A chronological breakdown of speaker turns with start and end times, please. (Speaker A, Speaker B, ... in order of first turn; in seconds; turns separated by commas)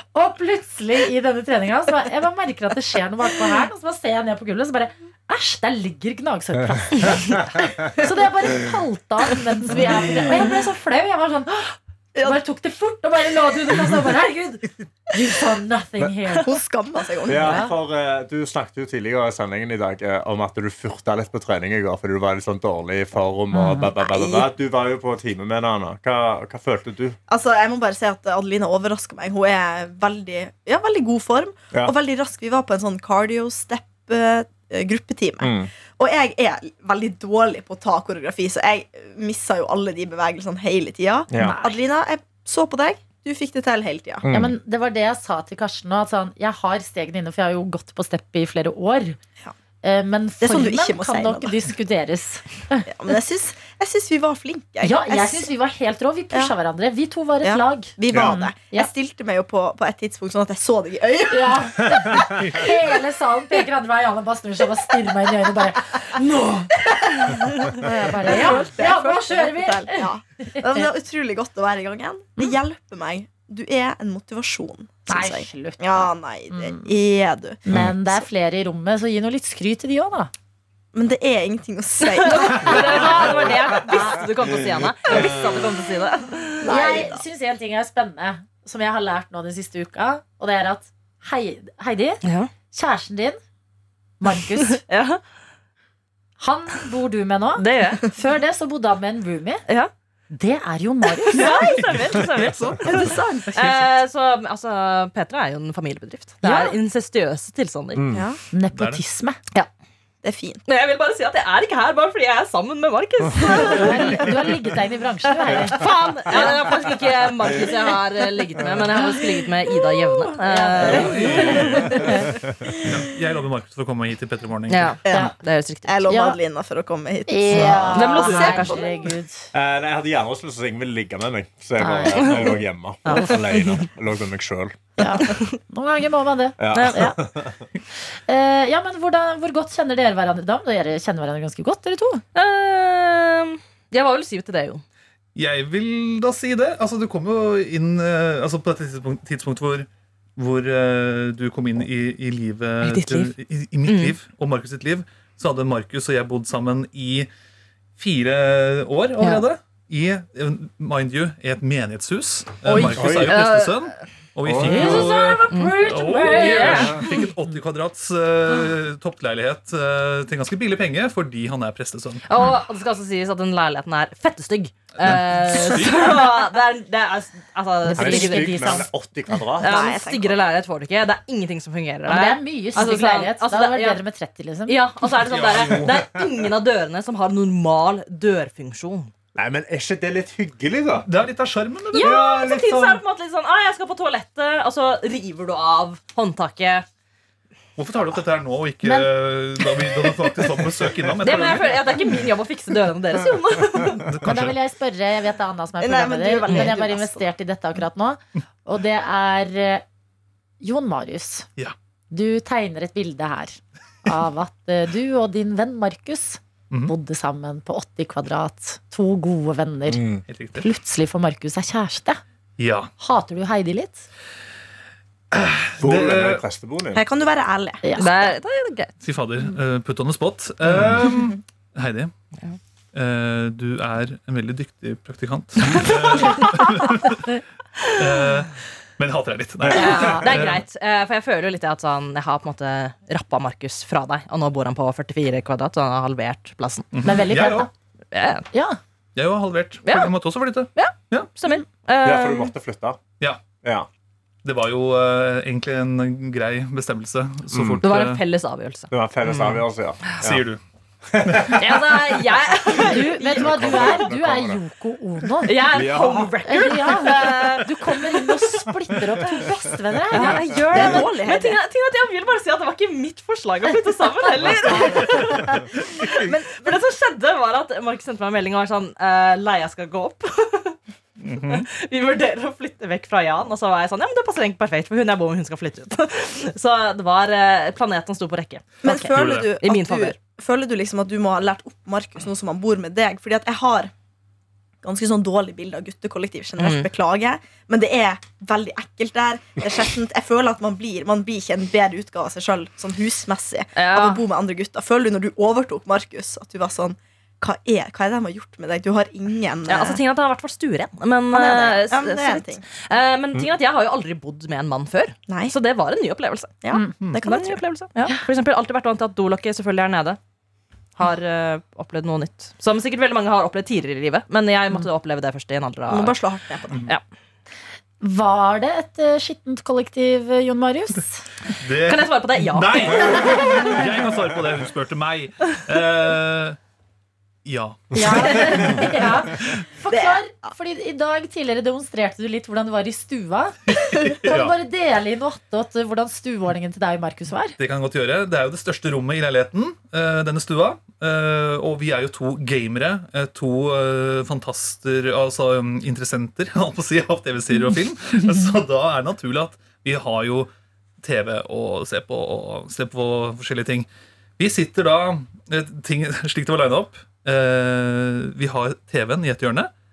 Speaker A: 0.1-7.4, Speaker B: 6.7-7.9, Speaker A: 8.0-16.6, Speaker B: 9.8-10.0, Speaker C: 12.1-12.4, Speaker C: 16.4-17.6, Speaker A: 17.2-17.7, Speaker B: 17.3-27.2, Speaker A: 23.5-23.9, Speaker C: 24.1-24.5, Speaker C: 27.3-44.3, Speaker B: 35.4-35.7, Speaker B: 41.3-41.6, Speaker A: 41.4-41.8, Speaker B: 44.2-44.5, Speaker A: 44.3-49.2, Speaker A: 49.8-52.9, Speaker C: 50.4-51.6, Speaker C: 52.9-55.5, Speaker A: 54.8-58.9, Speaker C: 57.4-62.7, Speaker B: 58.1-58.4, Speaker A: 61.3-70.9, Speaker B: 61.9-62.4, Speaker C: 66.9-78.2, Speaker A: 75.1-76.9, Speaker A: 77.7-80.3, Speaker C: 80.9-84.2, Speaker D: 82.0-86.7, Speaker C: 85.1-85.4, Speaker B: 85.1-85.5, Speaker C: 86.6-87.2, Speaker A: 86.6-93.4, Speaker D: 92.2-92.5, Speaker A: 94.2-94.8, Speaker D: 94.8-95.2, Speaker A: 96.4-99.6, Speaker D: 97.6-98.1, Speaker A: 100.3-101.7, Speaker D: 101.3-108.2, Speaker E: 101.8-103.9, Speaker C: 102.9-103.5, Speaker A: 106.4-106.8, Speaker B: 108.0-108.3, Speaker C: 108.1-108.4, Speaker A: 108.5-109.4, Speaker E: 108.7-109.0, Speaker C: 110.2-110.6, Speaker D: 110.7-114.3, Speaker A: 113.4-115.9, Speaker D: 115.5-122.1, Speaker C: 120.3-121.5, Speaker A: 120.4-122.3, Speaker E: 120.9-122.1, Speaker E: 122.8-125.0, Speaker D: 124.7-126.1, Speaker C: 125.1-125.3, Speaker C: 125.8-129.1, Speaker A: 126.1-126.4, Speaker A: 127.3-129.5, Speaker D: 127.5-128.9, Speaker B: 129.5-134.8, Speaker A: 131.8-132.6, Speaker D: 132.2-132.6, Speaker D: 133.1-133.9, Speaker A: 135.0-137.2, Speaker B: 136.6-137.6, Speaker D: 136.7-137.1, Speaker A: 138.3-142.2, Speaker D: 142.3-144.8, Speaker E: 145.3-157.3, Speaker D: 152.8-153.3, Speaker D: 153.9-154.2, Speaker E: 158.0-172.2, Speaker D: 162.7-163.8, Speaker B: 163.0-163.4, Speaker B: 164.4-165.1, Speaker A: 164.6-167.2, Speaker D: 165.5-167.1, Speaker D: 172.3-178.7, Speaker E: 175.0-176.2, Speaker A: 177.8-178.9, Speaker B: 178.0-179.8, Speaker D: 179.6-184.0, Speaker C: 179.6-180.4, Speaker A: 182.1-184.8, Speaker D: 184.7-189.1, Speaker E: 185.2-186.1, Speaker B: 185.9-186.2, Speaker B: 189.4-191.1, Speaker E: 191.1-192.2, Speaker D: 191.9-196.9, Speaker B: 192.0-193.0, Speaker E: 197.8-201.8, Speaker A: 198.8-199.1, Speaker D: 201.2-204.0, Speaker E: 204.0-204.6, Speaker A: 204.2-209.8, Speaker C: 205.8-207.2, Speaker D: 206.5-206.8, Speaker A: 210.6-211.5, Speaker A: 212.1-220.0, Speaker B: 219.9-220.2, Speaker E: 220.3-220.7, Speaker A: 220.5-222.2, Speaker E: 222.6-222.9, Speaker A: 223.0-224.1, Speaker E: 225.3-226.4, Speaker B: 225.8-227.0, Speaker C: 226.9-228.4, Speaker D: 228.0-228.9, Speaker E: 229.0-232.1, Speaker B: 230.7-231.0, Speaker E: 232.9-237.2, Speaker E: 237.9-240.6, Speaker B: 239.6-240.4, Speaker D: 239.7-246.9, Speaker E: 246.9-247.7, Speaker A: 247.0-247.7, Speaker D: 248.1-248.5, Speaker A: 248.5-248.8, Speaker E: 249.2-251.3, Speaker D: 249.8-250.1, Speaker D: 250.7-252.5, Speaker B: 252.0-253.0, Speaker E: 253.2-253.4, Speaker B: 253.6-253.9, Speaker E: 254.4-258.2, Speaker B: 257.5-257.8, Speaker D: 257.8-258.9, Speaker B: 258.9-260.4, Speaker E: 259.3-260.6, Speaker B: 261.1-262.2, Speaker E: 261.3-261.5, Speaker D: 261.6-263.3, Speaker A: 262.8-265.5, Speaker B: 263.0-264.6, Speaker D: 265.4-268.3, Speaker B: 265.7-266.4, Speaker A: 266.4-270.4, Speaker D: 270.1-280.8, Speaker C: 270.2-271.6, Speaker B: 270.7-271.0, Speaker E: 275.0-275.4, Speaker E: 281.2-281.7, Speaker D: 281.5-289.1, Speaker C: 288.8-293.9, Speaker E: 289.0-289.6, Speaker D: 289.6-290.2, Speaker C: 294.8-310.0, Speaker D: 296.6-296.9, Speaker D: 303.8-304.2, Speaker D: 309.7-316.6, Speaker C: 311.3-312.6, Speaker C: 315.3-315.5, Speaker C: 316.6-317.6, Speaker D: 317.2-320.2, Speaker D: 321.0-326.2, Speaker C: 325.9-326.9, Speaker A: 328.0-331.2, Speaker E: 331.6-336.6, Speaker D: 331.9-333.8, Speaker E: 337.4-339.6, Speaker A: 337.9-347.6, Speaker C: 339.9-340.2, Speaker E: 343.7-344.6, Speaker E: 347.6-363.9, Speaker E: 364.4-369.7